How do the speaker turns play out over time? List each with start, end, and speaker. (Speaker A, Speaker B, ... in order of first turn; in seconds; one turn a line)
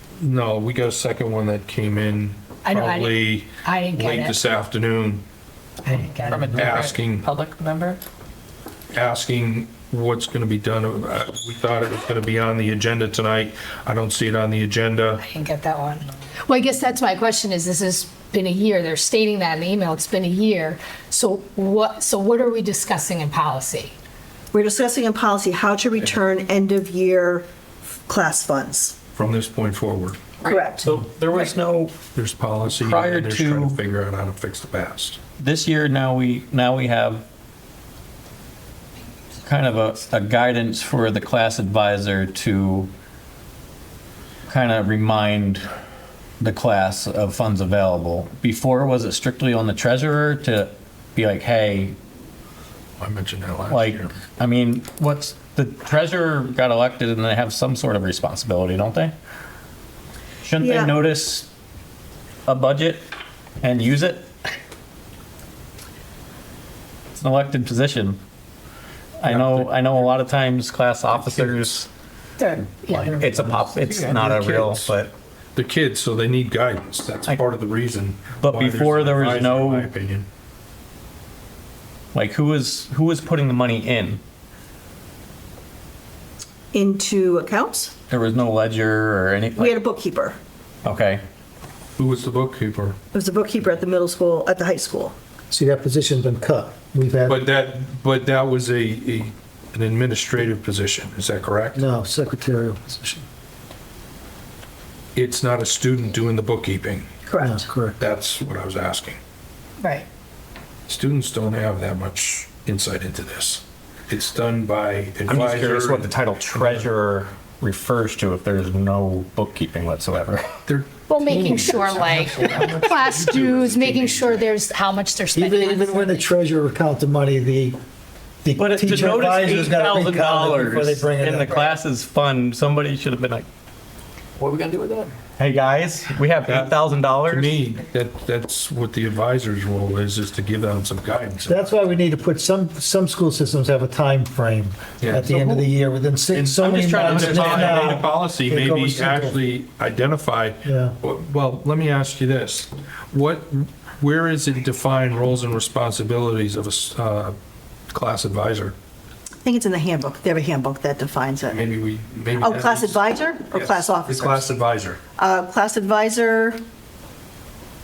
Speaker A: 0.2-5.2
Speaker B: 2.6-4.4
Speaker B: 5.8-6.6
Speaker C: 6.0-8.0
Speaker A: 6.5-7.3
Speaker A: 8.9-15.2
Speaker B: 15.2-23.9
Speaker D: 24.5-27.5
Speaker D: 28.1-28.9
Speaker A: 29.1-30.3
Speaker D: 30.4-30.9
Speaker E: 30.4-31.9
Speaker A: 32.1-35.2
Speaker E: 32.7-33.8
Speaker E: 35.4-37.2
Speaker E: 39.4-42.9
Speaker E: 44.5-45.7
Speaker E: 46.4-52.0
Speaker A: 53.0-54.1
Speaker E: 53.7-59.1
Speaker E: 60.4-61.5
Speaker D: 60.6-60.9
Speaker E: 62.5-63.0
Speaker E: 63.6-64.3
Speaker E: 67.1-68.2
Speaker E: 69.2-71.9
Speaker A: 69.2-69.7
Speaker A: 71.2-71.5
Speaker B: 72.4-73.2
Speaker E: 72.9-75.1
Speaker C: 73.2-74.1
Speaker A: 74.0-74.9
Speaker A: 75.5-80.3
Speaker E: 78.4-79.9
Speaker E: 82.1-84.2
Speaker D: 86.7-87.9
Speaker E: 88.1-89.7
Speaker D: 89.5-90.4
Speaker E: 90.8-91.2
Speaker A: 92.0-93.0
Speaker D: 93.1-95.2
Speaker F: 95.5-97.4
Speaker A: 97.3-101.8
Speaker F: 101.7-103.2
Speaker A: 105.1-107.1
Speaker D: 107.3-107.6
Speaker F: 107.4-108.0
Speaker A: 108.0-109.2
Speaker B: 109.8-110.1
Speaker A: 110.9-116.1
Speaker E: 115.3-120.5
Speaker A: 120.7-124.4
Speaker B: 121.1-126.2
Speaker F: 125.3-127.8
Speaker F: 128.4-131.6
Speaker E: 128.6-133.5
Speaker C: 134.4-135.1
Speaker E: 135.3-137.6
Speaker A: 136.4-141.8
Speaker F: 141.5-149.4
Speaker A: 145.0-145.7
Speaker A: 146.3-157.3
Speaker E: 146.6-148.1
Speaker F: 150.6-150.9
Speaker A: 157.9-158.8
Speaker D: 159.4-161.6
Speaker A: 161.4-165.0
Speaker D: 162.4-164.5
Speaker D: 165.2-166.6